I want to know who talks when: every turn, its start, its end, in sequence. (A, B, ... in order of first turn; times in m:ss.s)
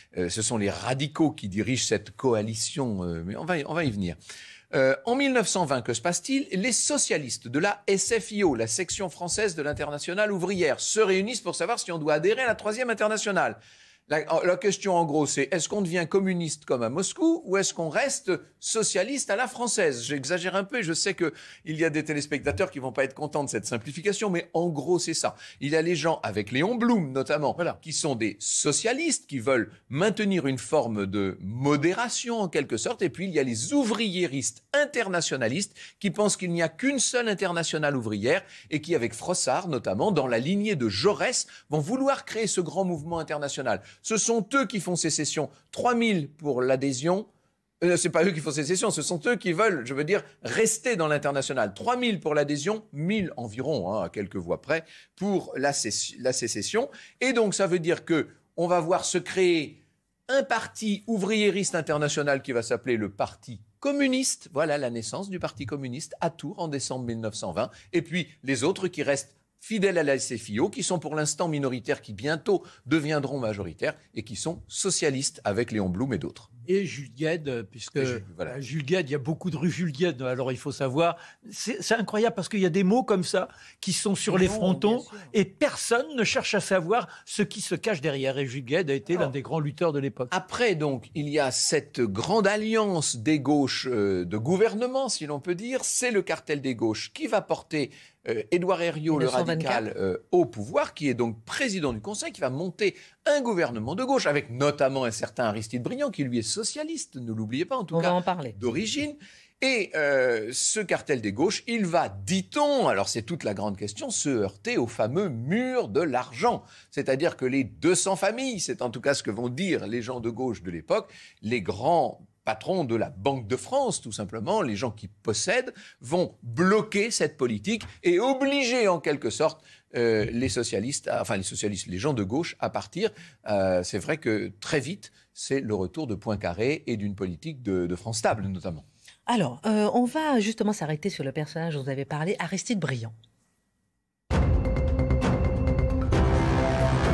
0:00.1-0:04.2 A
0:04.7-0:13.6 A
0:14.1-0:47.3 A
0:47.8-1:16.5 A
1:16.6-1:30.3 B
1:18.0-1:18.5 A
1:24.3-1:25.3 C
1:30.3-2:18.8 A
1:39.1-1:39.8 C
1:47.9-1:48.6 C
2:19.3-2:23.1 C